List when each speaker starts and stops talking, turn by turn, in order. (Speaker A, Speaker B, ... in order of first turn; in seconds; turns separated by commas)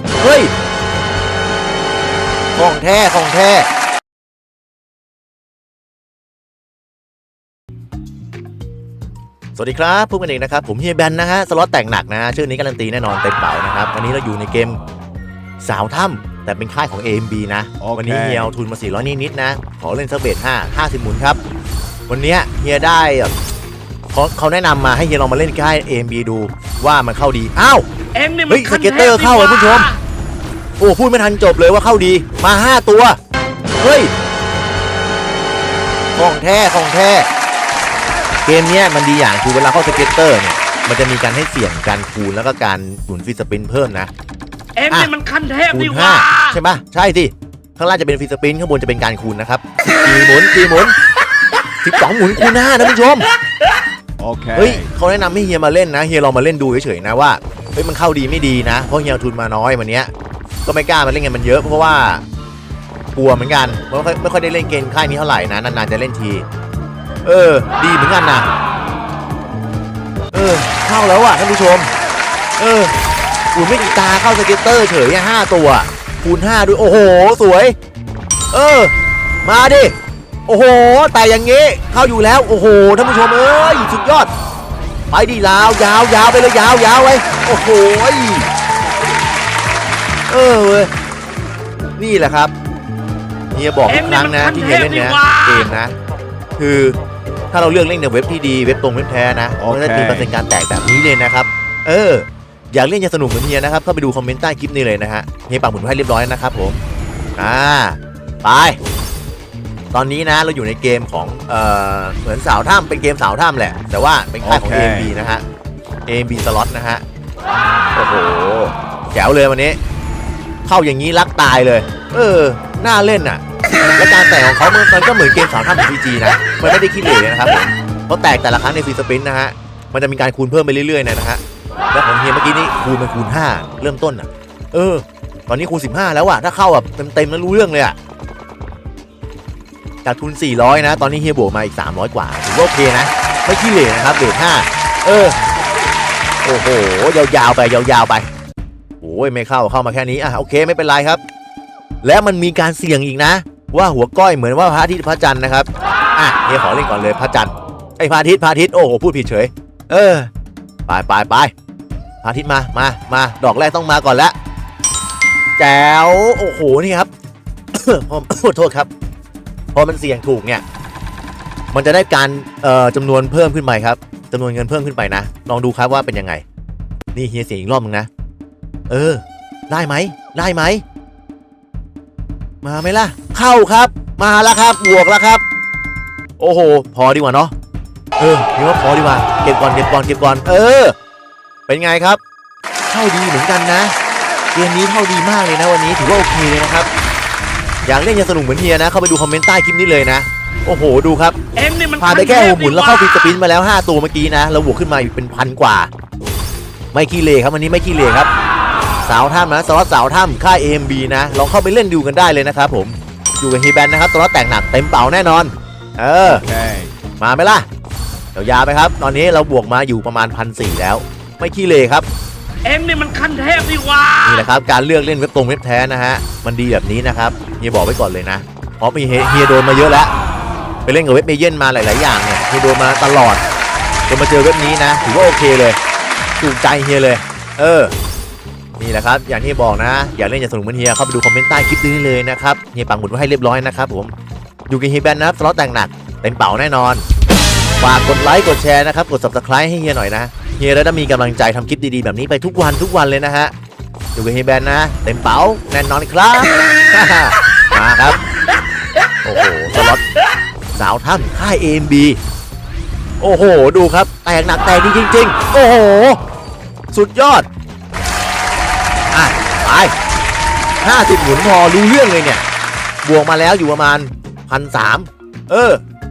Speaker A: 0.2-0.5, Speaker A: 2.5-3.7, Speaker A: 9.6-14.8, Speaker A: 15.6-21.4, Speaker B: 17.8-18.5, Speaker A: 22.1-23.3, Speaker A: 24.1-27.9, Speaker C: 28.1-30.0, Speaker A: 28.5-29.9, Speaker A: 30.8-33.2, Speaker A: 33.8-34.1, Speaker A: 36.2-37.3, Speaker A: 38.5-44.1, Speaker C: 44.8-46.6, Speaker A: 45.7-51.0, Speaker A: 51.8-53.3, Speaker B: 54.2-54.9, Speaker A: 54.5-60.1, Speaker A: 60.6-62.2, Speaker A: 63.1-66.5, Speaker A: 67.2-68.5, Speaker A: 70.3-71.9, Speaker A: 72.6-72.9, Speaker A: 73.5-77.8, Speaker A: 78.5-78.9, Speaker A: 79.4-79.9, Speaker A: 80.5-84.3, Speaker A: 85.1-88.5, Speaker A: 90.3-90.9, Speaker A: 92.0-92.5, Speaker A: 93.5-96.0, Speaker C: 93.9-95.7, Speaker A: 96.6-97.0, Speaker A: 97.5-106.8, Speaker B: 99.6-100.3, Speaker A: 107.4-108.8, Speaker A: 109.9-115.4, Speaker B: 114.4-115.1, Speaker A: 116.1-117.0, Speaker A: 117.9-119.8, Speaker A: 120.7-123.4, Speaker A: 124.0-131.4, Speaker A: 131.9-138.0, Speaker A: 140.1-145.3, Speaker A: 146.4-148.3, Speaker A: 149.0-151.2, Speaker A: 152.0-160.3, Speaker A: 160.9-161.5, Speaker A: 162.2-164.3, Speaker A: 165.6-167.1, Speaker A: 167.7-168.9, Speaker A: 169.7-170.6, Speaker A: 171.7-176.4, Speaker A: 177.1-178.1, Speaker A: 178.9-180.8, Speaker A: 182.6-185.4, Speaker A: 186.4-187.5, Speaker A: 188.2-190.9, Speaker A: 191.7-192.2, Speaker A: 192.9-193.9, Speaker A: 194.5-196.9, Speaker A: 197.8-201.4, Speaker C: 201.6-203.3, Speaker A: 202.0-205.9, Speaker A: 206.9-208.3, Speaker A: 209.1-216.4, Speaker B: 216.2-216.9, Speaker A: 217.2-217.7, Speaker A: 218.3-222.1, Speaker C: 222.6-224.4, Speaker A: 224.2-230.1, Speaker A: 230.9-233.4, Speaker A: 234.1-235.8, Speaker A: 236.4-237.9, Speaker A: 238.8-244.1, Speaker A: 244.7-247.1, Speaker A: 247.8-253.5, Speaker A: 254.2-258.2, Speaker A: 259.2-260.0, Speaker A: 260.8-262.2, Speaker A: 263.2-266.2, Speaker A: 266.9-267.5, Speaker A: 269.1-269.9, Speaker A: 270.8-272.4, Speaker A: 273.0-275.8